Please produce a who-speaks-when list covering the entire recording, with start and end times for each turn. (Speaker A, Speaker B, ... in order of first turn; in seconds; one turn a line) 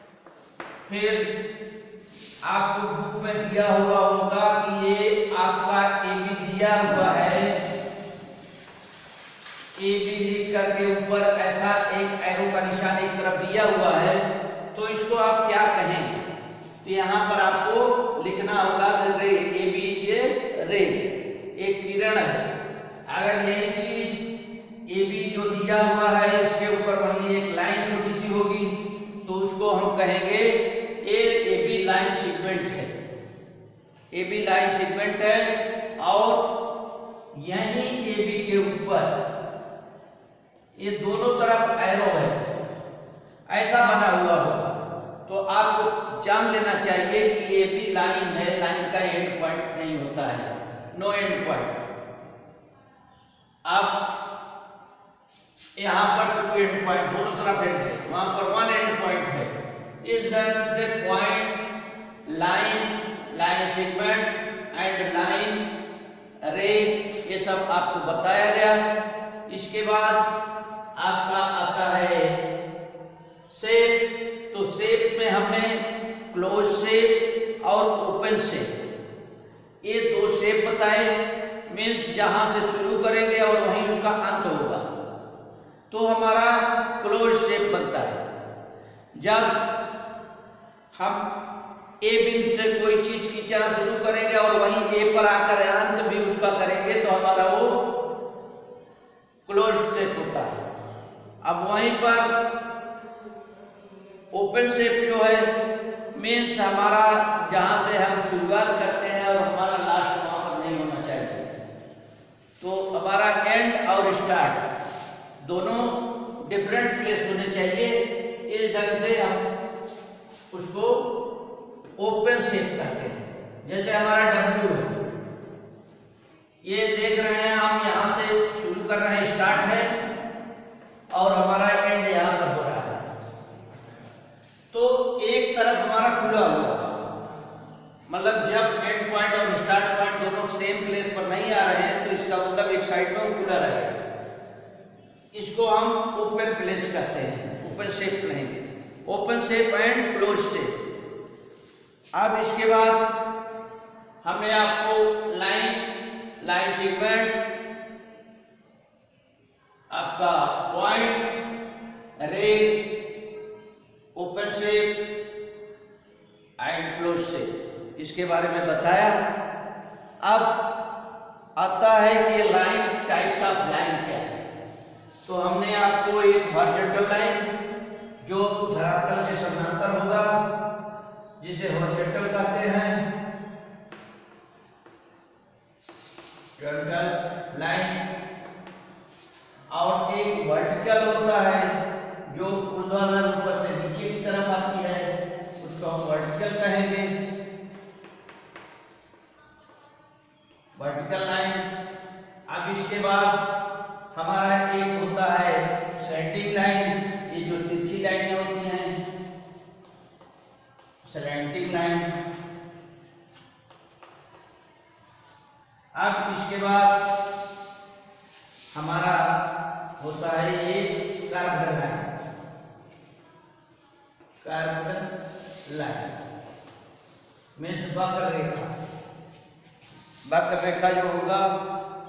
Speaker A: 0.9-1.3
Speaker A: 2.4-7.5
Speaker A: 9.8-14.2
Speaker A: 14.7-16.2
Speaker A: 16.8-21.0
Speaker A: 21.5-22.4
Speaker A: 23.1-24.2
Speaker A: 24.9-32.9
Speaker A: 34.1-36.5
Speaker A: 37.3-39.2
Speaker A: 40.7-42.5
Speaker A: 43.5-51.8
Speaker A: 53.6-54.0
Speaker A: 55.8-61.6
Speaker A: 62.2-65.6
Speaker A: 66.4-68.8
Speaker A: 69.5-70.2
Speaker A: 71.0-72.3
Speaker A: 73.5-74.0
Speaker A: 74.5-78.7
Speaker A: 79.8-81.1
Speaker A: 81.7-84.9
Speaker A: 85.9-88.2
Speaker A: 89.2-89.6
Speaker A: 90.9-91.3
Speaker A: 92.0-97.8
Speaker A: 99.5-100.6
Speaker A: 101.4-102.3
Speaker A: 104.3-105.5
Speaker A: 106.1-111.5
Speaker A: 112.6-114.6
Speaker A: 115.4-119.4
Speaker A: 120.5-121.1
Speaker A: 122.0-124.9
Speaker A: 126.6-129.9
Speaker A: 131.1-133.0
Speaker A: 134.7-137.0
Speaker A: 138.1-144.0
Speaker A: 145.3-150.7
Speaker A: 152.1-153.0
Speaker A: 154.2-155.8
Speaker A: 156.4-157.3
Speaker A: 159.9-161.3
Speaker A: 162.2-162.8
Speaker A: 164.2-164.9
Speaker A: 166.6-169.2
Speaker A: 170.2-170.6
Speaker A: 171.6-174.4
Speaker A: 175.2-177.4
Speaker A: 178.2-180.3
Speaker A: 181.4-183.0
Speaker A: 186.6-188.0
Speaker A: 189.7-191.7
Speaker A: 192.3-197.1
Speaker A: 200.8-201.6
Speaker A: 202.5-203.4
Speaker A: 204.1-209.0
Speaker A: 211.0-212.1
Speaker A: 215.9-217.0
Speaker A: 218.7-219.3
Speaker A: 220.0-222.1
Speaker A: 224.4-225.1
Speaker A: 225.7-226.1
Speaker A: 227.6-228.7
Speaker A: 230.2-231.5